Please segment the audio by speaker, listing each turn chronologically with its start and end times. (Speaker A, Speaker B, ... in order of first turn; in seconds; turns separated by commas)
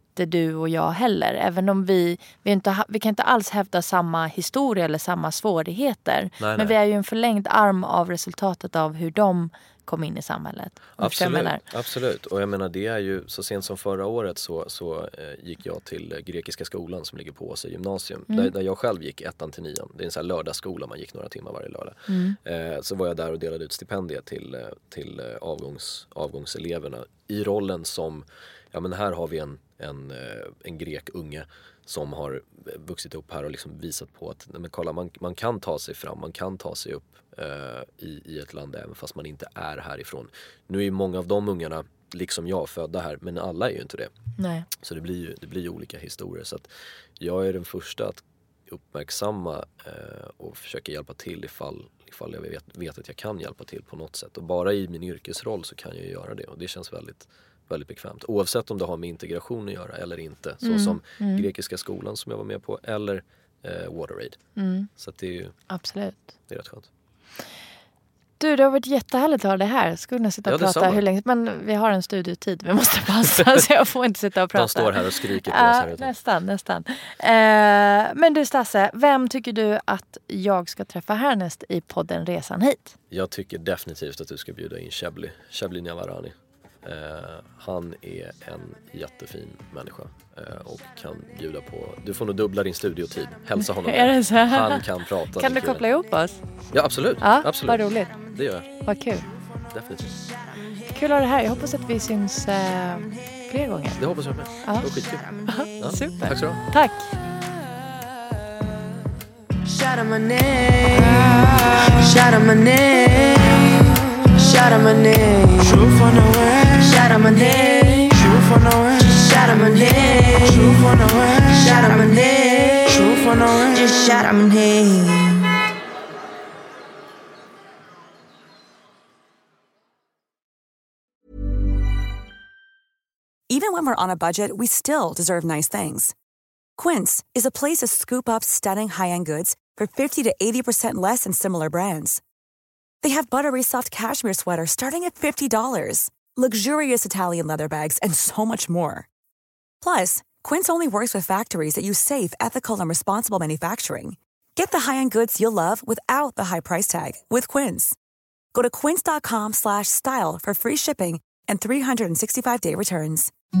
Speaker A: 0.1-11.6, Speaker B: 6.4-6.8, Speaker B: 11.0-44.1, Speaker A: 22.1-22.4, Speaker A: 44.4-44.7, Speaker B: 44.7-64.4, Speaker A: 60.6-61.5, Speaker A: 64.5-64.9, Speaker B: 64.9-65.5, Speaker A: 65.7-66.3, Speaker B: 66.5-66.9, Speaker A: 68.4-83.0, Speaker B: 70.5-71.0, Speaker B: 74.5-76.1, Speaker B: 83.1-95.8, Speaker A: 93.5-96.4, Speaker B: 96.7-98.7, Speaker A: 97.2-98.2, Speaker A: 98.8-99.3, Speaker B: 99.7-100.2, Speaker A: 100.9-104.0, Speaker B: 103.9-106.6, Speaker A: 104.6-104.9, Speaker A: 105.5-107.1, Speaker C: 114.6-116.0, Speaker C: 123.1-124.2, Speaker D: 133.5-136.1, Speaker D: 136.8-142.2, Speaker D: 143.0-149.1, Speaker D: 149.8-157.9, Speaker D: 158.5-163.3